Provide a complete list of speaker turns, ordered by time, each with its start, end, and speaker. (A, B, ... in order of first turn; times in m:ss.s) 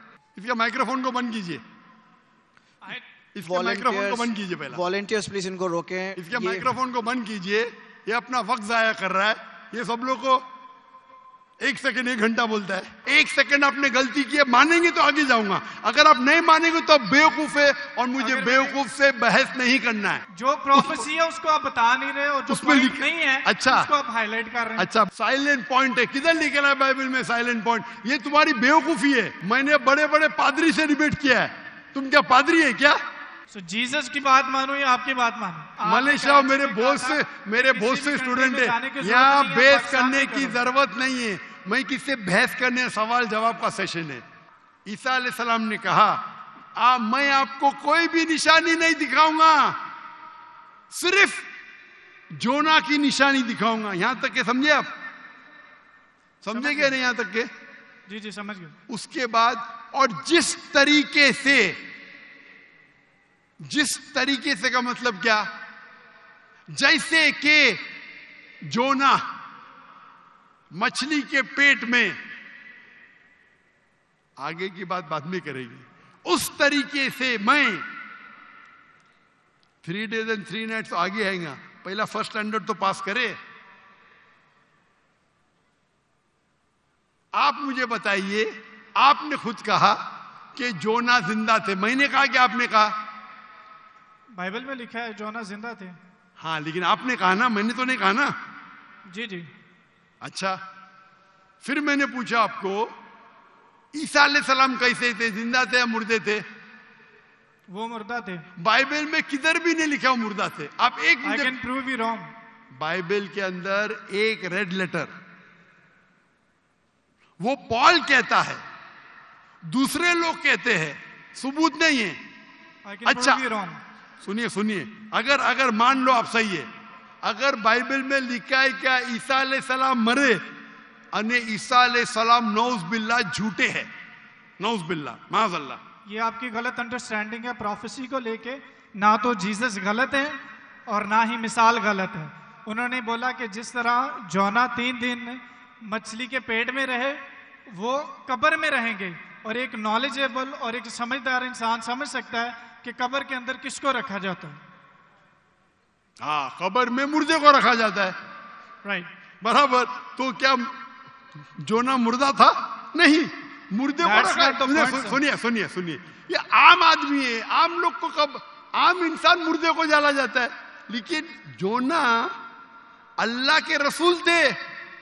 0:00.3-0:01.6 A
0:03.3-0:04.8 A
0:03.4-0:06.7 B
0:06.2-0:10.4 A
0:11.6-0:20.2 A
0:18.2-0:18.8 C
0:20.3-0:24.9 C
0:20.7-0:21.1 A
0:22.5-0:23.9 A
0:24.8-0:33.0 A
0:33.5-0:40.6 C
0:35.8-0:44.2 A
0:44.8-0:46.2 A
0:46.8-0:49.8 A
0:50.9-0:51.4 A
0:52.3-0:54.9 A
0:56.4-0:57.5 A
0:56.5-0:56.9 C
0:58.1-0:58.8 C
0:58.9-1:01.8 A
1:03.6-1:05.5 A
1:06.7-1:07.8 A
1:08.6-1:09.2 A
1:10.7-1:12.2 A
1:14.4-1:17.8 A
1:19.8-1:23.4 A
1:27.3-1:30.0 A
1:30.5-1:32.9 A
1:34.4-1:36.0 C
1:36.4-1:38.3 A
1:39.1-1:39.5 C
1:40.2-1:40.6 A
1:41.6-1:42.9 A
1:43.9-1:46.4 A
1:47.7-1:48.4 C
1:48.6-1:51.5 A
1:51.2-1:52.3 C
1:52.7-1:55.1 A
1:57.4-1:58.6 A
1:59.7-2:02.2 A
2:02.8-2:03.8 C
2:03.0-2:03.4 A
2:04.2-2:06.7 A
2:07.2-2:10.4 A
2:11.1-2:13.9 A
2:14.6-2:15.8 A
2:16.0-2:34.6 C
2:36.2-2:38.2 A
2:39.4-2:40.7 A
2:41.6-2:52.3 A
2:44.0-2:45.2 C
2:53.2-2:54.6 A